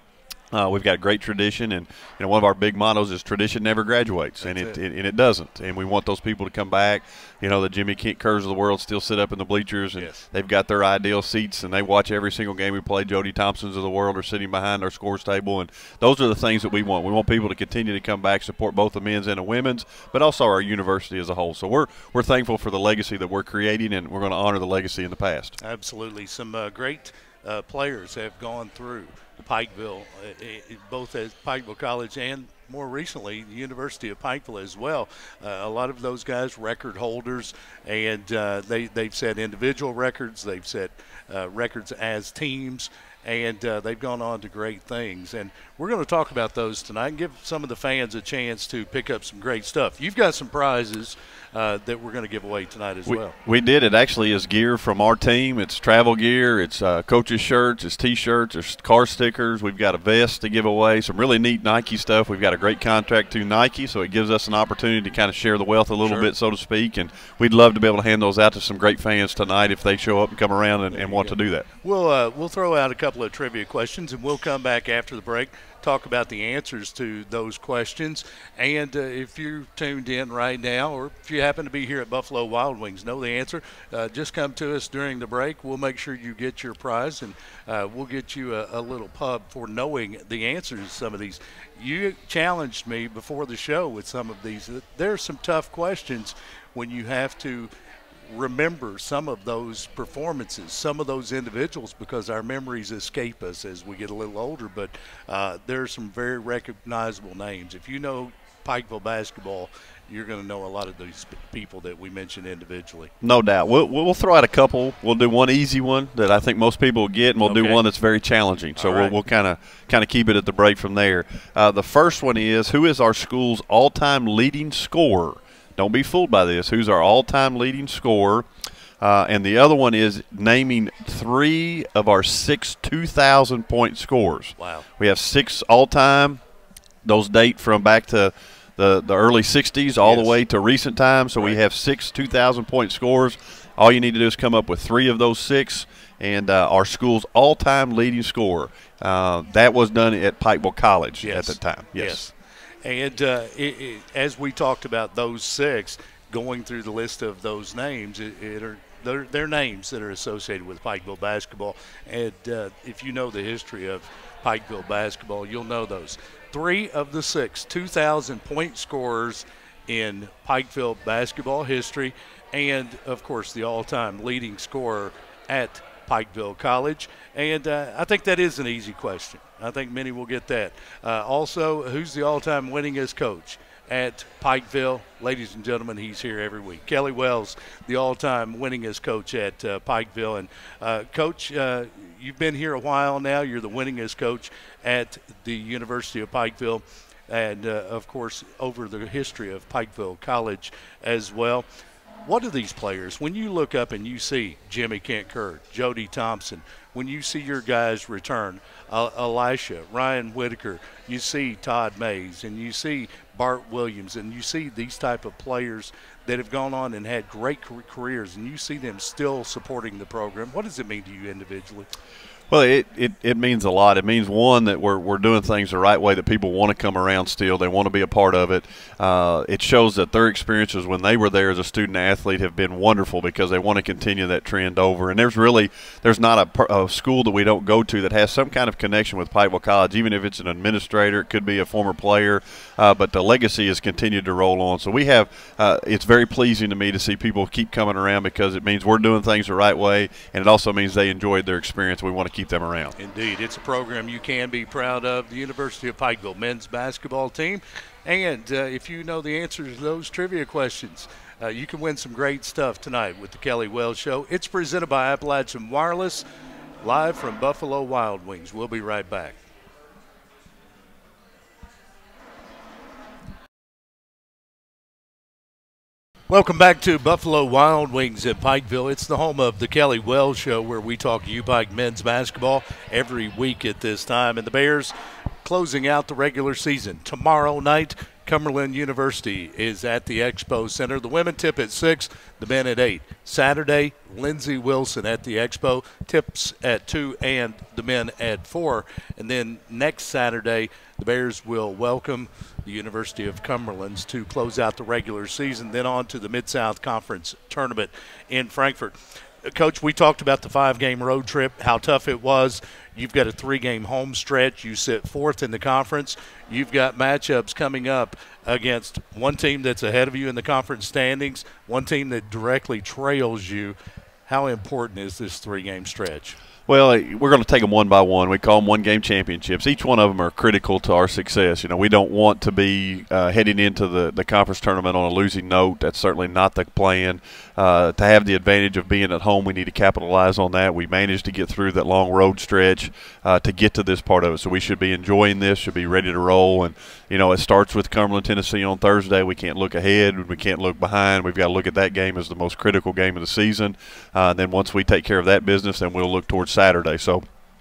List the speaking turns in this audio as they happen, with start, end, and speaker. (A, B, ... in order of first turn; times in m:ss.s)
0:00.5-0:25.6 A
0:04.4-0:04.8 B
0:10.0-0:10.3 B
0:25.6-0:53.4 B
0:53.1-1:11.7 A
1:10.9-1:37.7 B
1:38.3-1:53.1 B
1:53.2-2:08.5 A
1:57.4-1:57.8 B
1:58.8-1:59.2 B
2:09.0-2:16.4 A
2:14.6-2:14.9 B
2:17.0-2:32.3 A
2:20.0-2:20.4 B
2:31.2-2:32.3 B
2:32.8-3:21.7 B
3:22.2-3:41.9 B
3:42.5-4:12.9 A
4:13.0-4:26.2 B
4:26.8-4:29.4 B
4:36.3-5:26.4 B
5:26.7-5:57.2 A